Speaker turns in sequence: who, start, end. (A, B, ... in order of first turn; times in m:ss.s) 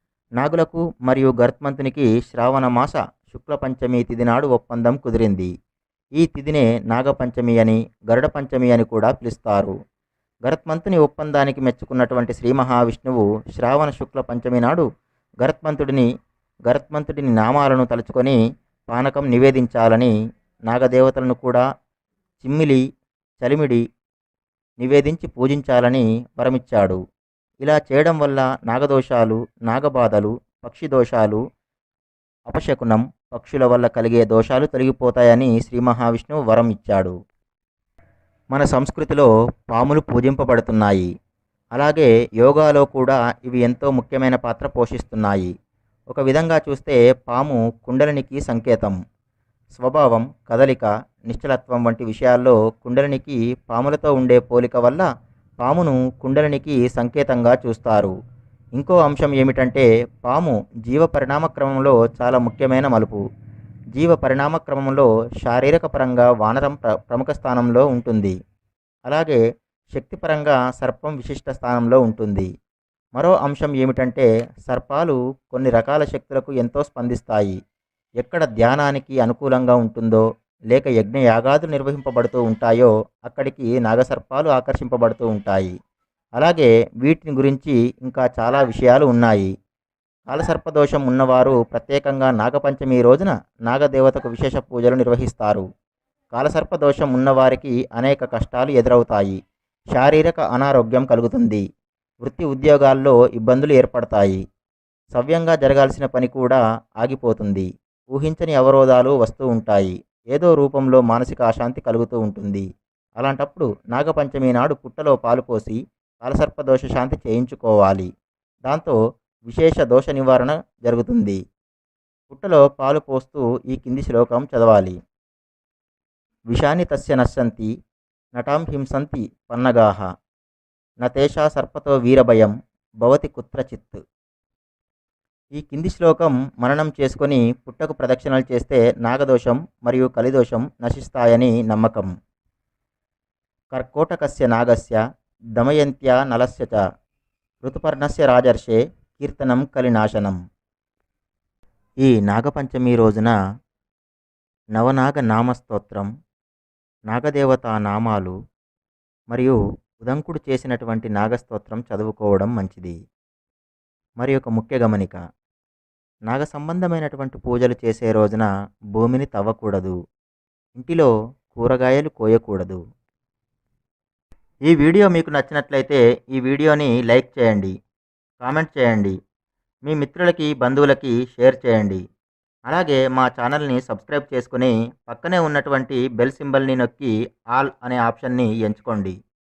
0:00.4-0:05.5 A
0:06.2-0:09.7 A
0:10.5-0:14.8 A
0:15.4-0:16.0 A
0:16.7-0:18.4 A
0:18.9-0:20.1 A
0:20.7-0:21.6 A
0:22.4-0:22.8 A
0:23.4-0:23.8 A
0:24.8-0:27.0 A
0:27.6-0:31.4 A
0:32.5-0:37.1 A
0:38.5-0:41.1 A
0:41.7-0:45.5 A
0:46.1-0:49.0 A
0:49.8-0:55.0 A
0:55.6-0:58.1 A
0:58.8-1:03.2 A
1:03.9-1:08.3 A
1:09.1-1:09.4 A
1:09.9-1:12.5 A
1:13.2-1:17.6 A
1:18.2-1:25.7 A
1:26.4-1:29.5 A
1:30.3-1:35.6 A
1:36.3-1:39.4 A
1:39.9-1:41.6 A
1:42.2-1:44.4 A
1:45.1-1:52.6 A
1:53.2-1:58.1 A
1:58.7-1:58.9 A
1:59.5-2:01.4 A
2:02.3-2:04.9 A
2:06.5-2:07.7 A
2:08.4-2:10.0 A
2:11.0-2:12.5 A
2:13.0-2:14.0 A
2:15.5-2:22.1 A
2:23.7-2:25.0 A
2:25.6-2:26.8 A
2:27.6-2:30.4 A
2:32.0-2:33.3 A
2:34.8-2:36.1 A
2:37.1-2:38.3 A
2:39.3-2:42.9 A
2:44.2-2:45.2 A
2:46.3-2:49.9 A
2:50.8-2:52.8 A
2:54.7-2:57.7 A
2:58.4-2:59.1 A
2:59.8-3:02.0 A
3:02.7-3:09.1 A